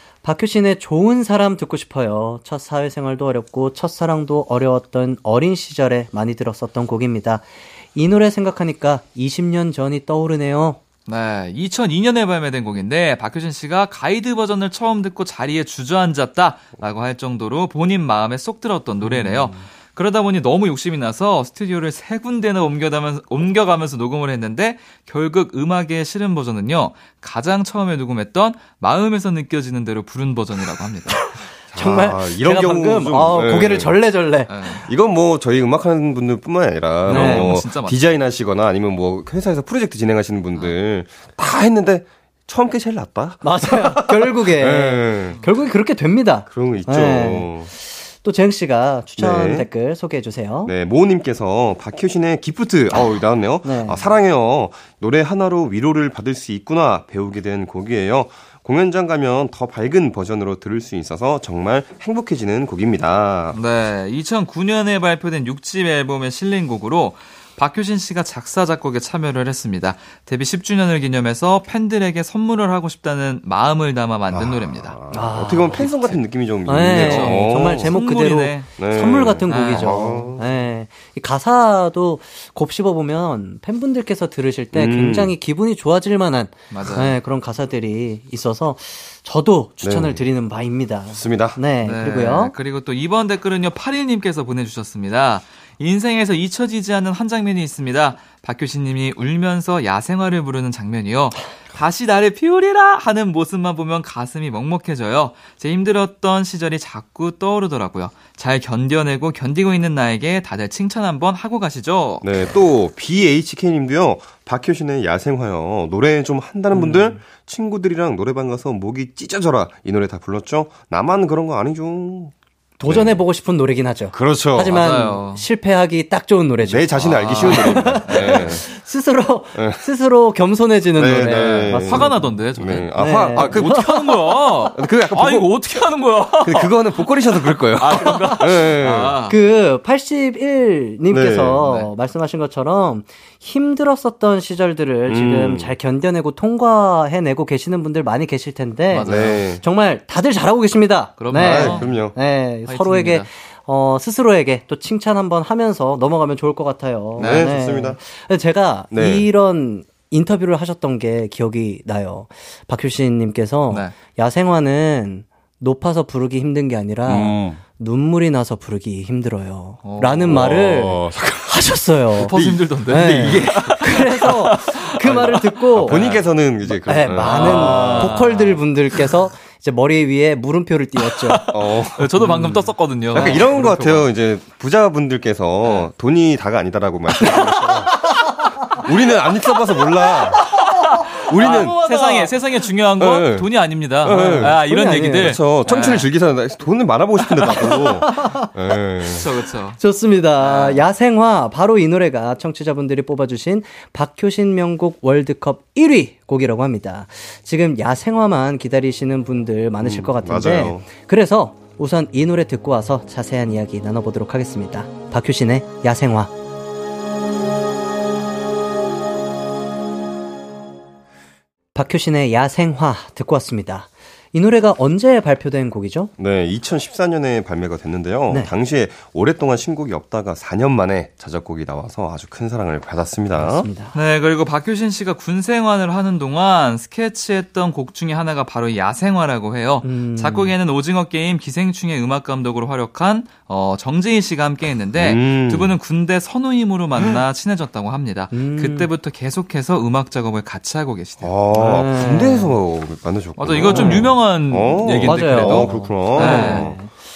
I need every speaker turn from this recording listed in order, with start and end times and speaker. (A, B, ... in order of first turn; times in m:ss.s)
0:00.2-0:10.8 A
0:11.1-0:31.2 B
0:19.0-0:19.6 A
0:31.7-0:34.0 C
0:31.7-0:34.8 A
0:34.5-0:34.9 B
0:34.9-0:45.4 C
0:37.1-0:37.6 A
0:37.1-0:38.0 B
0:43.4-0:50.7 A
0:46.5-0:47.7 C
0:49.2-0:49.7 C
0:50.6-1:03.6 C
0:53.6-0:54.0 A
1:03.5-1:15.0 B
1:14.3-1:18.0 C
1:15.1-1:15.9 A
1:15.7-1:16.2 B
1:16.7-1:32.6 A
1:16.9-1:18.7 B
1:18.7-1:20.5 C
1:19.5-1:20.2 B
1:24.7-1:25.3 C
1:26.7-1:27.2 B
1:29.8-1:30.2 C
1:31.1-1:31.6 C
1:31.8-1:52.3 B
1:52.2-2:02.3 C
1:56.7-1:57.2 B
2:02.8-2:12.4 A
2:02.8-2:03.2 C
2:04.1-2:04.9 C
2:04.7-2:05.4 B
2:06.6-2:08.7 C
2:07.0-2:08.5 B
2:09.6-2:09.8 C
2:11.0-2:15.8 C
2:11.8-2:19.4 B
2:13.0-2:14.0 A
2:16.4-2:19.2 C
2:18.0-2:52.3 A
2:21.1-2:21.6 C
2:21.6-2:21.9 B
2:25.1-2:25.7 C
2:28.9-2:29.5 B
2:29.0-2:29.6 C
2:31.2-2:32.1 B
2:31.3-2:32.2 C
2:32.6-2:33.3 B
2:37.2-2:37.5 B
2:37.2-2:38.0 C
2:38.9-2:39.3 C
2:43.7-2:44.0 B
2:47.1-2:47.6 C
2:49.8-2:50.4 B
2:50.3-2:51.7 C
2:52.2-2:56.3 B
2:52.3-2:53.7 C
2:52.9-2:56.0 A
2:55.1-2:58.2 C
2:56.8-3:01.5 A
2:57.2-2:58.6 B
3:01.2-3:04.1 B
3:01.5-3:07.9 C
3:03.1-3:03.7 A
3:05.6-3:05.9 B
3:07.2-3:08.5 A
3:08.8-3:10.4 C
3:09.8-3:10.4 A
3:10.3-3:16.1 B
3:11.3-3:11.8 C
3:11.4-3:12.4 A
3:13.0-3:13.5 C
3:14.0-3:19.3 C
3:14.0-3:15.4 A
3:17.4-3:17.8 B
3:17.4-3:18.5 A
3:19.1-3:19.8 B
3:19.8-3:36.3 A
3:20.4-3:20.8 B
3:29.8-3:30.9 C
3:41.7-3:46.1 A
3:46.2-3:53.7 C
3:53.4-3:54.0 A
3:53.9-4:11.8 B
3:59.8-4:00.5 A
4:05.0-4:05.8 C
4:08.3-4:08.9 A
4:11.2-4:16.8 C
4:11.5-4:12.5 A
4:13.4-4:16.7 B
4:13.7-4:14.1 A
4:15.0-4:16.9 A